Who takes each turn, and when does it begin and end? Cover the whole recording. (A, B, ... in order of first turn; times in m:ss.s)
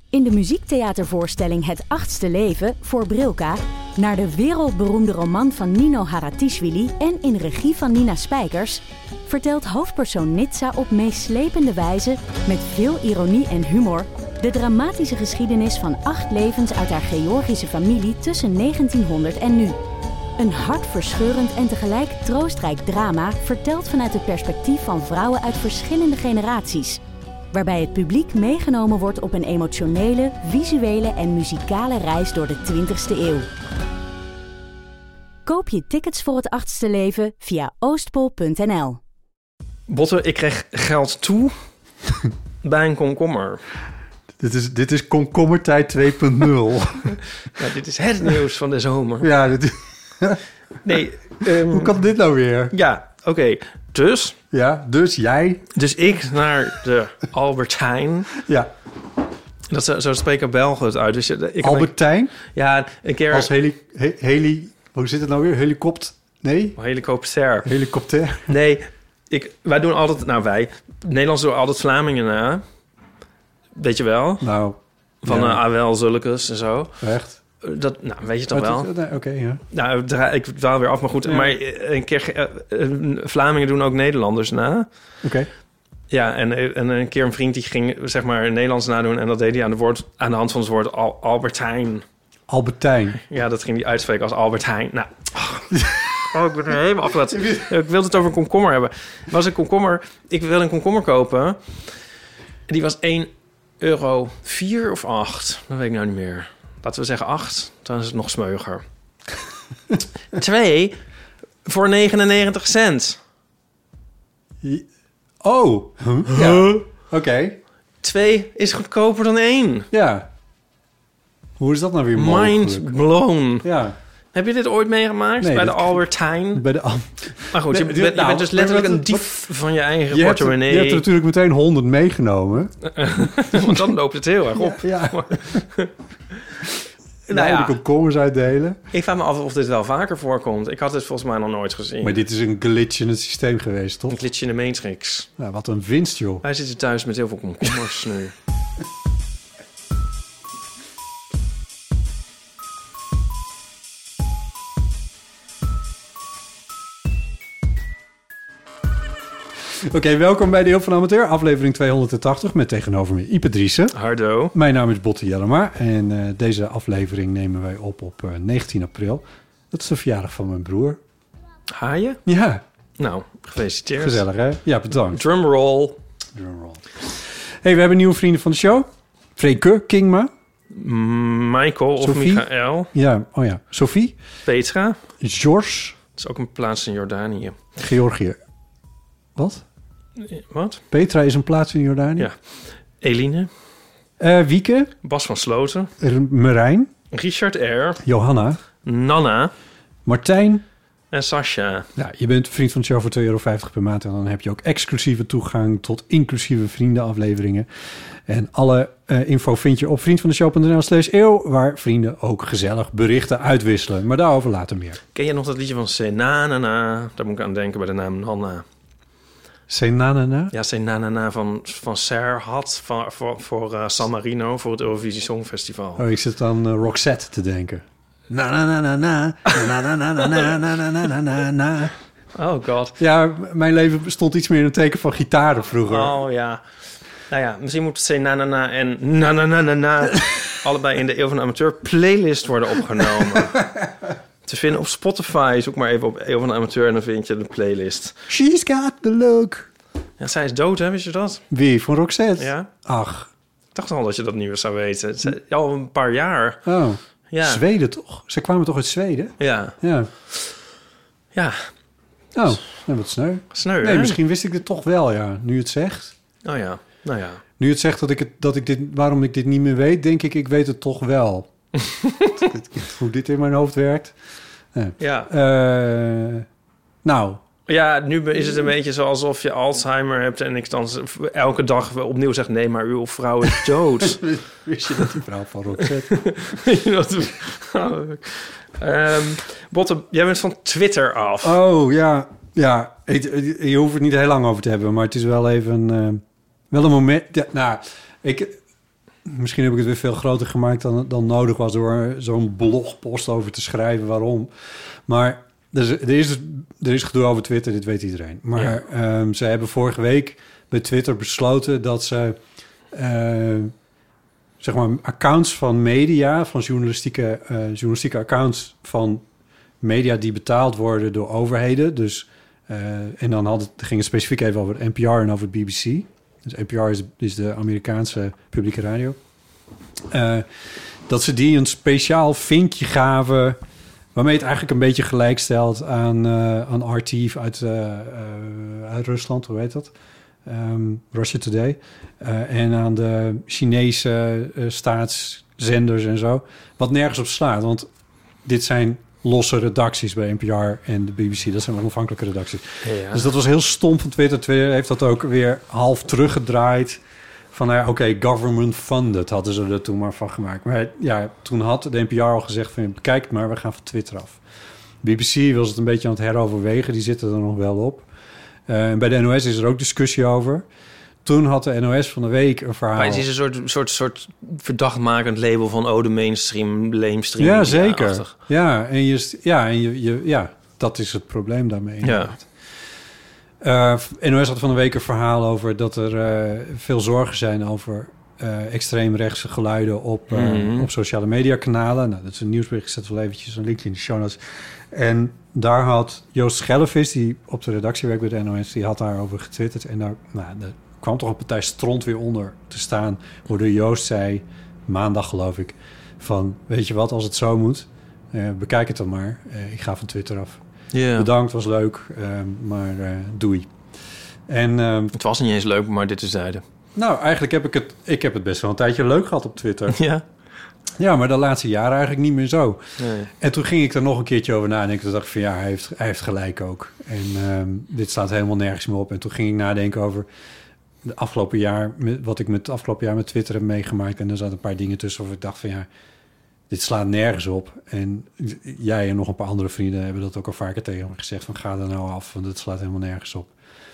0:00.1-0:19.8 A
0:20.4-0:27.0 A
0:27.5-0:33.5 A
0:35.4-0:39.0 A
0:39.9-0:41.6 B
0:42.6-0:43.6 B
0:44.4-0:47.2 C
0:47.6-0:49.3 B
0:49.2-0:50.4 C
0:50.8-0:52.0 B
0:51.4-0:52.7 C
0:52.7-0:54.4 B
0:54.5-0:55.7 C
0:55.7-0:58.3 B
0:58.4-0:58.7 C
0:59.7-1:01.9 B
1:01.6-1:02.4 C
1:02.5-1:03.5 B
1:03.3-1:06.8 C
1:06.8-1:07.7 B
1:07.6-1:08.6 C
1:08.5-1:12.6 B
1:13.8-1:14.5 B
1:14.4-1:15.6 C
1:15.2-1:17.0 B
1:17.0-1:17.4 C
1:17.6-1:18.9 B
1:18.5-1:19.6 C
1:19.7-1:24.9 B
1:21.2-1:21.5 C
1:25.2-1:25.5 C
1:26.1-1:32.0 B
1:32.5-1:33.2 C
1:33.3-1:41.6 B
1:35.8-1:36.2 C
1:37.3-1:37.7 C
1:42.7-1:48.8 B
1:50.3-1:51.0 B
1:51.7-1:53.2 B
1:55.4-1:57.6 C
1:56.3-1:56.8 B
1:58.0-1:59.9 B
1:59.9-2:00.3 C
2:01.6-2:03.0 C
2:02.2-2:03.7 B
2:03.6-2:04.0 C
2:04.3-2:06.6 B
2:05.4-2:06.0 C
2:06.5-2:09.3 C
2:07.5-2:11.1 B
2:10.1-2:12.7 C
2:12.9-2:15.9 B
2:13.5-2:13.8 C
2:14.5-2:15.7 C
2:17.3-2:18.8 C
2:17.3-2:17.8 B
2:18.9-2:22.2 B
2:22.0-2:24.2 C
2:24.1-2:25.3 B
2:25.4-2:26.4 C
2:26.4-2:28.3 B
2:39.7-2:43.9 C
2:43.9-2:44.5 B
2:44.5-2:51.0 C
2:51.7-2:52.2 B
2:52.2-2:52.6 C
2:53.0-2:54.2 B
2:54.0-2:55.2 C
2:55.1-2:56.0 B
2:56.3-3:00.3 C
3:00.7-3:02.9 B
3:02.0-3:04.2 C
3:04.5-3:05.0 B
3:05.2-3:06.0 C
3:06.2-3:07.7 B
3:07.8-3:08.4 C
3:09.4-3:09.6 C
3:10.2-3:10.8 B
3:10.9-3:12.3 C
3:13.0-3:13.5 B
3:14.2-3:14.9 C
3:15.0-3:15.9 B
3:16.0-3:16.9 C
3:17.1-3:18.0 B
3:18.0-3:18.6 C
3:18.8-3:19.5 B
3:20.0-3:20.6 C
3:21.1-3:21.9 B
3:22.0-3:27.7 C
3:28.2-3:35.0 C
3:35.1-3:38.6 B
3:39.7-3:40.5 C
3:40.5-3:46.0 B
3:46.0-3:51.9 C
3:52.3-3:53.0 B
3:53.0-3:56.2 C
3:55.9-3:56.6 B
3:57.3-4:03.6 B
4:03.2-4:03.9 C
4:04.5-4:08.2 B
4:08.3-4:09.7 C
4:10.2-4:11.4 B
4:11.5-4:13.3 C
4:12.4-4:12.7 B
4:13.8-4:16.6 B
4:16.7-4:20.1 C
4:17.3-4:17.6 B
4:19.4-4:19.8 B
4:21.4-4:21.7 B
4:22.4-4:26.1 C
4:23.5-4:24.2 B
4:26.4-4:27.4 B
4:27.6-4:31.5 C
4:32.4-4:34.1 C
4:34.7-4:36.4 C
4:35.0-4:35.3 B
4:37.0-4:37.4 C
4:37.7-4:44.3 B
4:44.0-4:46.2 C
4:46.1-4:51.6 B
4:51.4-4:58.6 C
4:59.2-5:04.5 C
5:05.1-5:12.4 C
5:12.9-5:13.7 C
5:14.6-5:19.2 C
5:19.8-5:29.2 C
5:30.1-5:33.6 C
5:34.1-5:39.9 C
5:40.4-5:47.9 C
5:48.4-5:57.0 C
5:52.8-5:53.3 B
5:57.5-6:04.4 C
6:05.0-6:08.1 C
6:08.7-6:10.7 C
6:11.2-6:13.2 C
6:13.0-6:18.3 B
6:17.4-6:22.5 C
6:22.0-6:22.4 B
6:23.6-6:50.6 C
6:30.3-6:30.9 B
6:50.9-6:51.3 B
6:51.1-6:53.7 C
6:54.5-6:55.1 C
6:55.1-6:56.6 B
6:57.0-7:00.0 C
6:59.9-7:00.2 B
7:01.0-7:02.8 C
7:03.0-7:03.3 B
7:03.4-7:10.3 C
7:11.0-7:15.9 C
7:16.7-7:23.5 C